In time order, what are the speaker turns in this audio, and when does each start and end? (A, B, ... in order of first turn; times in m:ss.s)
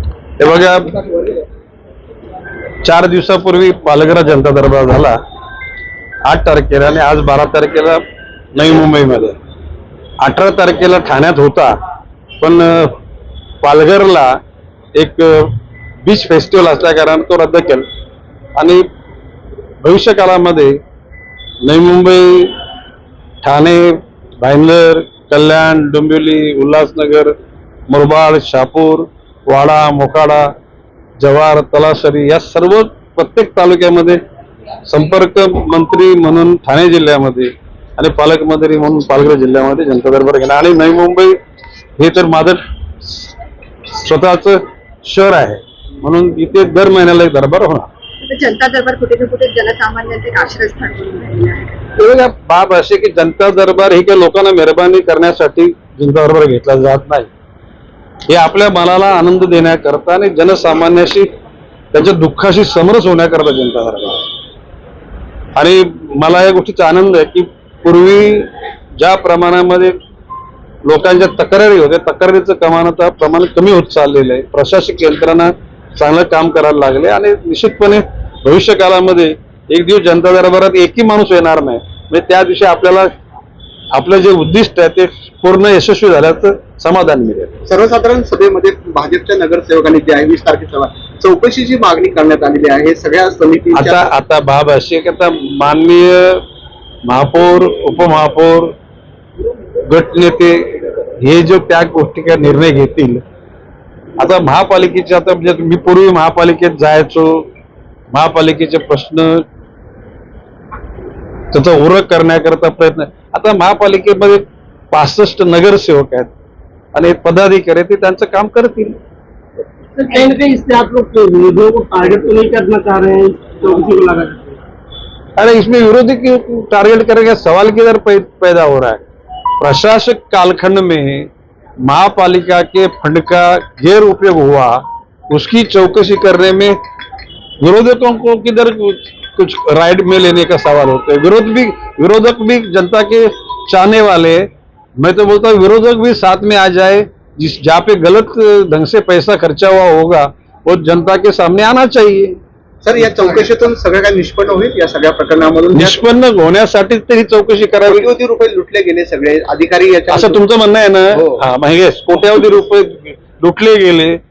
0:00.4-0:01.0 A
0:02.8-0:05.2 A
0:06.3-0:08.0 A
0:08.6-0:09.4 A
0:10.2-0:11.8 A
0:12.4-0:13.0 A
0:13.6-0:14.3 A
0:15.0-0:15.5 A
0:16.0-0:17.9 A
0:18.6-0:18.8 A
0:19.8-0:20.8 A
0:21.6-0:22.5 A
0:23.4-0:27.3 A
0:27.9-0:30.4 A
0:31.2-0:34.2 A
0:34.9-0:41.4 A
0:42.0-0:43.3 A
0:43.9-0:47.9 A
0:48.2-0:51.7 B
0:52.0-0:57.3 A
0:58.3-1:01.3 A
1:01.9-1:04.2 A
1:05.6-1:10.0 A
1:10.8-1:23.1 A
1:23.9-1:27.6 A
1:27.7-1:34.1 C
1:33.7-1:36.4 A
1:37.1-1:38.7 A
1:39.8-1:43.2 A
1:44.2-1:47.5 A
1:48.1-1:49.4 A
1:51.5-1:56.3 A
1:56.9-1:59.0 A
2:00.0-2:04.6 D
2:05.4-2:09.0 A
2:09.6-2:11.3 A
2:11.8-2:16.8 A
2:17.6-2:24.5 A
2:25.0-2:32.4 A
2:32.8-2:36.0 C
2:35.7-2:38.1 A
2:37.9-2:40.4 C
2:40.1-2:44.2 A
2:41.1-2:41.4 C